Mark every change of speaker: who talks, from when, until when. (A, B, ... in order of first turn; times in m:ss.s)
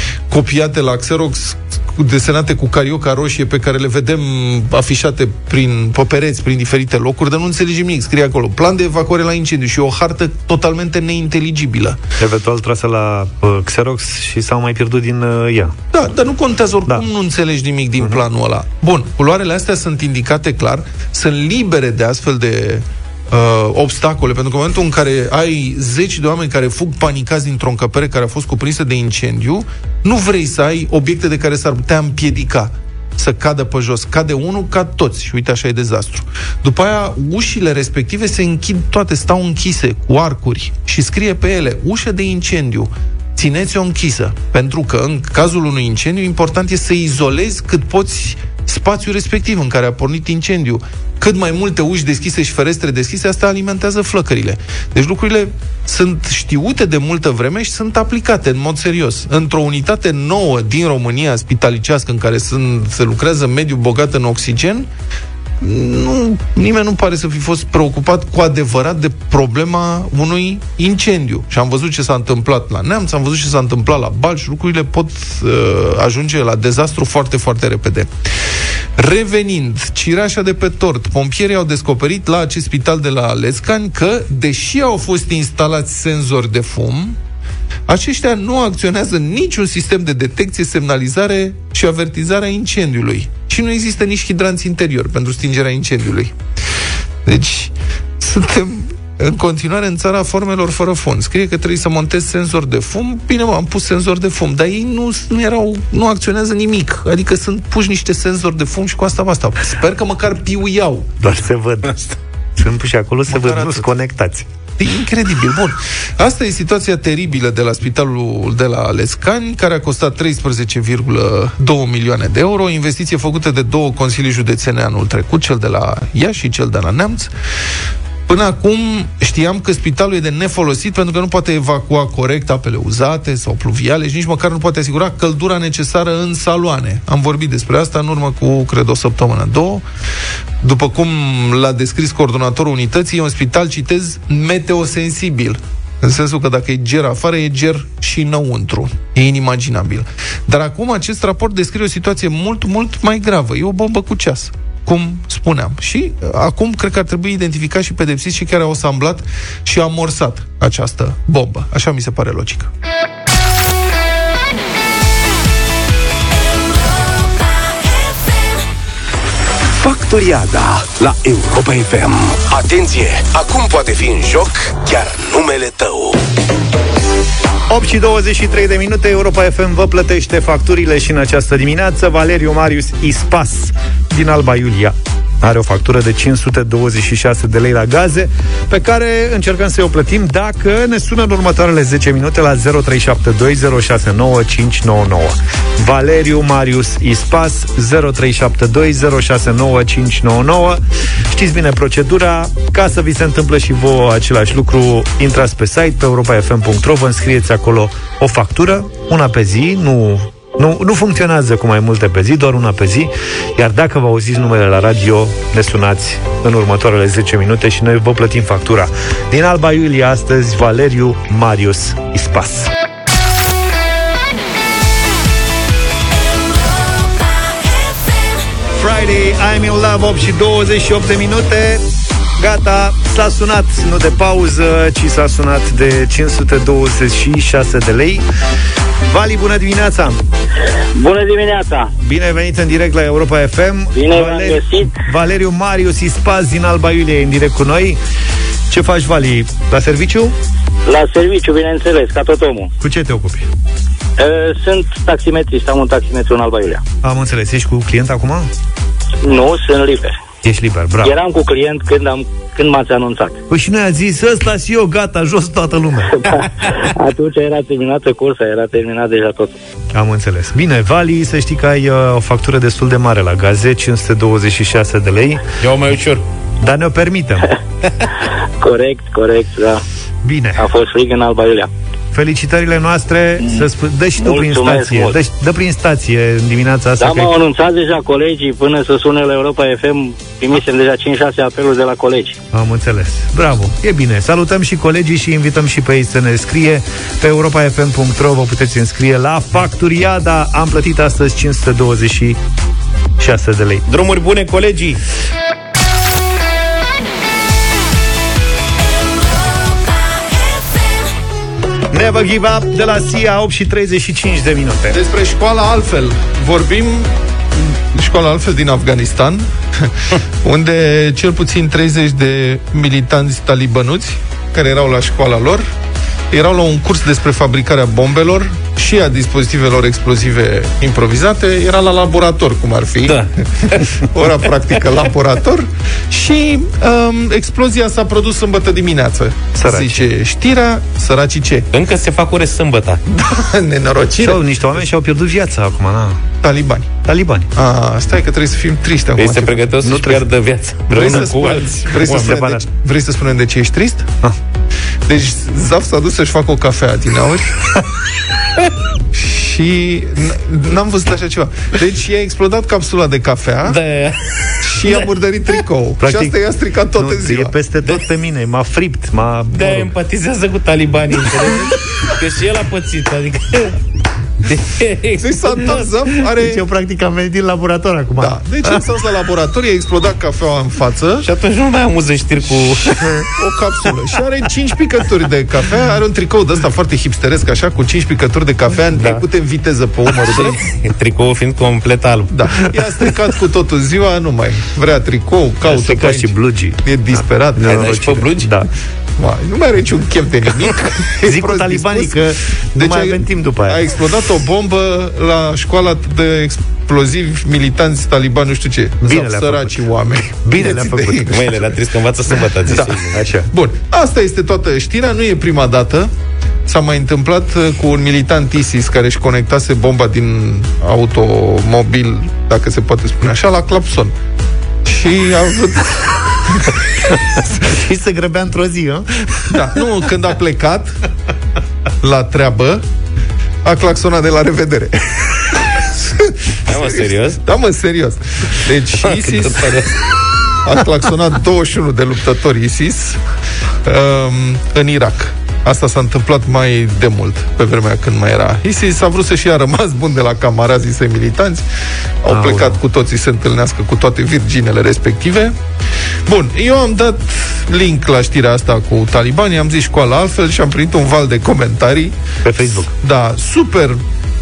0:00.3-0:12.0 A
0:12.2-0:15.8 B
0:15.9-1:04.9 A
1:05.6-1:18.1 A
1:19.0-1:27.2 A
1:27.9-1:36.3 A
1:37.2-1:51.2 A
1:51.2-1:54.5 B
1:53.3-1:53.9 A
1:54.8-2:07.3 A
2:08.3-2:19.8 A
2:20.6-2:42.7 A
2:49.8-2:56.2 C
2:57.7-3:42.7 B
3:48.8-3:51.8 B
3:52.4-3:58.2 B
3:59.1-4:00.2 B
4:00.9-4:01.9 D
4:02.0-4:08.0 B
4:03.9-4:04.9 D
4:08.7-4:10.3 B
4:10.8-4:12.7 D
4:12.8-4:13.5 B
4:14.2-4:16.8 D
4:17.0-4:18.5 B
4:19.2-4:20.2 D
4:20.4-4:21.1 B
4:21.0-4:23.4 D
4:23.5-4:26.2 B
4:26.1-4:29.5 D
4:29.9-4:35.4 B
4:35.6-4:36.2 E
4:36.6-4:37.5 B
4:38.6-4:39.8 D
4:40.2-4:40.6 B
4:40.6-4:41.7 D
4:42.1-4:47.3 B
4:44.2-4:45.2 D
4:47.0-4:52.4 D
4:52.5-5:02.4 B
5:03.2-5:03.8 B
5:03.9-5:05.0 E
5:11.9-5:15.0 B
5:14.9-5:25.6 A
5:26.3-5:41.7 A
5:33.0-5:34.0 E
5:39.6-5:40.1 B
5:41.7-5:43.0 E
5:43.1-5:44.4 A
5:44.2-5:46.2 B
5:46.4-5:46.9 A
5:47.0-5:47.5 B
5:47.5-5:49.7 A
5:49.2-5:51.8 E
5:49.8-5:50.2 B
5:50.9-5:52.6 B
5:50.9-5:54.1 A
5:55.1-5:57.6 A
5:59.1-6:03.8 A
6:03.7-6:05.0 E
6:04.6-6:07.5 A
6:06.0-6:06.4 B
6:07.0-6:09.9 B
6:09.5-6:13.8 E
6:14.4-6:15.9 E
6:15.2-6:16.6 A
6:16.4-6:18.4 B
6:18.2-6:21.3 A
6:21.2-6:23.2 E
6:23.4-6:30.6 A
6:30.2-6:32.4 E
6:32.3-6:38.0 A
6:35.7-6:36.8 B
6:37.5-6:38.7 B
6:37.6-6:38.5 E
6:39.2-6:42.2 A
6:41.2-6:43.8 B
6:42.7-6:51.5 A
6:49.0-6:51.5 B
6:51.3-6:53.2 E
6:52.7-6:56.1 A
6:53.1-6:53.5 B
6:56.6-7:04.1 A
7:04.8-7:06.8 A
7:07.5-7:09.5 B
7:09.5-7:10.9 A
7:12.0-7:12.8 A
7:13.6-7:19.9 A
7:16.7-7:17.4 E
7:19.0-7:20.1 E
7:20.6-7:23.2 A
7:23.8-7:31.6 A
7:32.2-7:35.5 A
7:32.3-7:32.8 B
7:36.3-7:42.1 A
7:42.4-7:42.9 B
7:42.8-7:44.0 A